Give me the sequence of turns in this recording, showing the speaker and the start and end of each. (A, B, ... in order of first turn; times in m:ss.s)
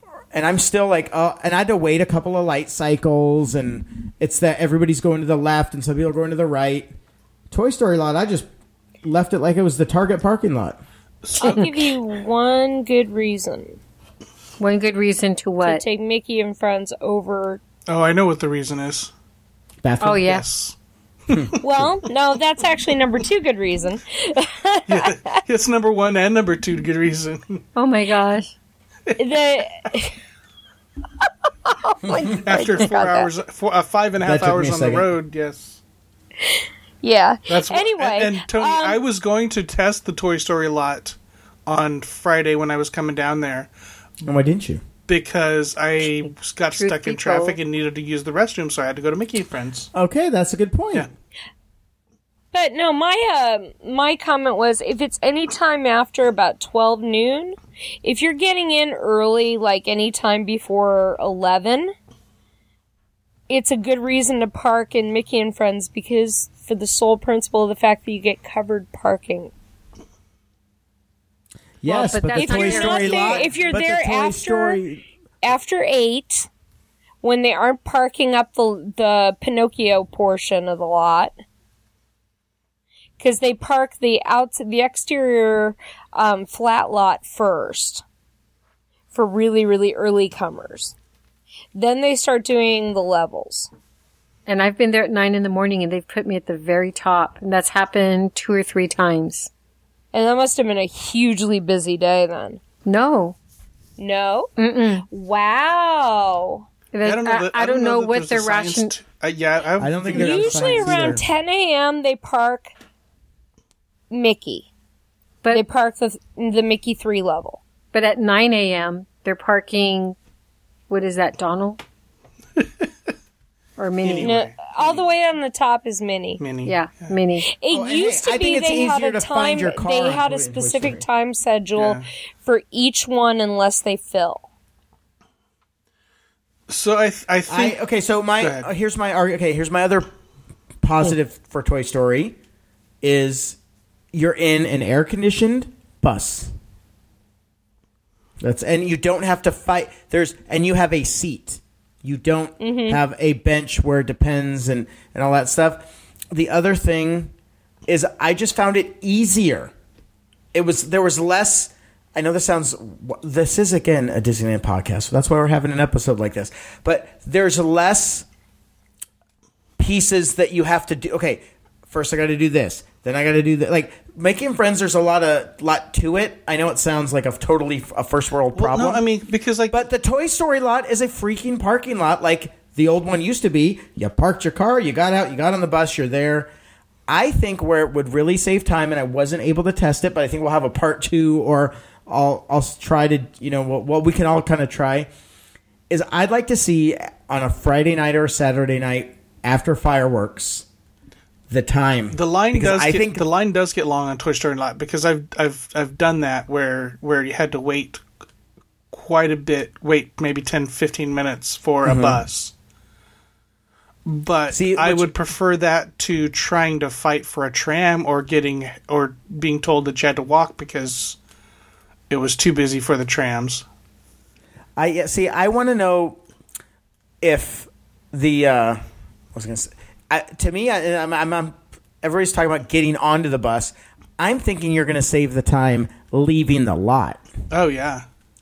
0:00.3-0:06.9 A
0:07.5-0:08.5 A
0:09.0-0:10.8 A
0:11.2-0:11.7 B
0:11.4-0:13.8 C
0:14.6-0:15.8 D
0:15.6-0:17.6 C
0:17.9-0:19.1 B
0:19.8-0:20.2 A
0:20.0-0:20.4 D
0:20.0-0:20.8 B
0:21.3-0:21.6 B
0:21.3-0:21.9 A
0:21.6-0:25.4 C
0:24.9-0:27.6 B
0:27.8-0:28.5 D
0:29.2-0:30.2 C
0:31.7-0:33.3 C
0:32.4-0:35.8 B
0:34.2-0:35.1 A
0:36.4-0:39.0 C
0:37.5-0:43.7 B
0:44.2-0:44.8 A
0:45.1-0:49.9 B
0:46.8-0:47.6 D
0:49.9-0:51.1 A
0:52.5-1:01.9 C
1:03.5-1:09.5 C
1:11.8-1:15.0 A
1:11.9-1:13.5 D
1:12.4-1:14.8 C
1:15.4-1:16.5 C
1:17.2-1:21.3 C
1:23.2-1:28.0 C
1:29.1-1:31.0 C
1:31.8-1:33.7 C
1:34.5-1:39.5 D
1:40.1-1:42.6 C
1:42.9-1:43.4 D
1:44.0-1:44.5 C
1:44.6-1:45.0 D
1:45.0-1:46.6 C
1:46.9-1:48.9 D
1:47.0-1:51.2 B
1:49.8-1:51.2 A
1:50.1-1:52.7 C
1:54.1-1:54.7 C
1:55.5-1:57.6 C
1:57.9-2:00.2 D
2:00.9-2:01.8 D
2:03.8-2:04.4 D
2:04.0-2:05.1 B
2:04.2-2:06.4 C
2:06.4-2:07.1 B
2:06.6-2:07.5 D
2:07.4-2:14.4 C
2:07.7-2:11.0 A
2:11.8-2:12.1 B
2:16.7-2:17.8 B
2:17.5-2:20.1 A
2:18.4-2:18.7 B
2:20.8-2:22.4 A
2:23.0-2:23.6 A
2:24.1-2:26.6 A
2:28.4-2:37.3 A
2:32.6-2:33.0 C
2:37.9-2:39.7 A
2:40.5-2:48.3 A
2:49.8-2:59.0 A
2:58.5-2:59.8 B
2:59.7-3:06.5 A
3:07.1-3:15.1 A
3:15.9-3:20.7 A
3:21.5-3:23.2 A
3:22.1-3:28.0 B
3:28.9-3:32.5 B
3:31.8-3:32.2 A
3:34.1-3:41.2 B
3:34.5-3:35.1 A
3:42.1-3:43.6 B
3:44.8-3:46.2 A
3:47.2-3:48.8 A
3:49.3-3:57.2 A
3:57.5-3:58.0 B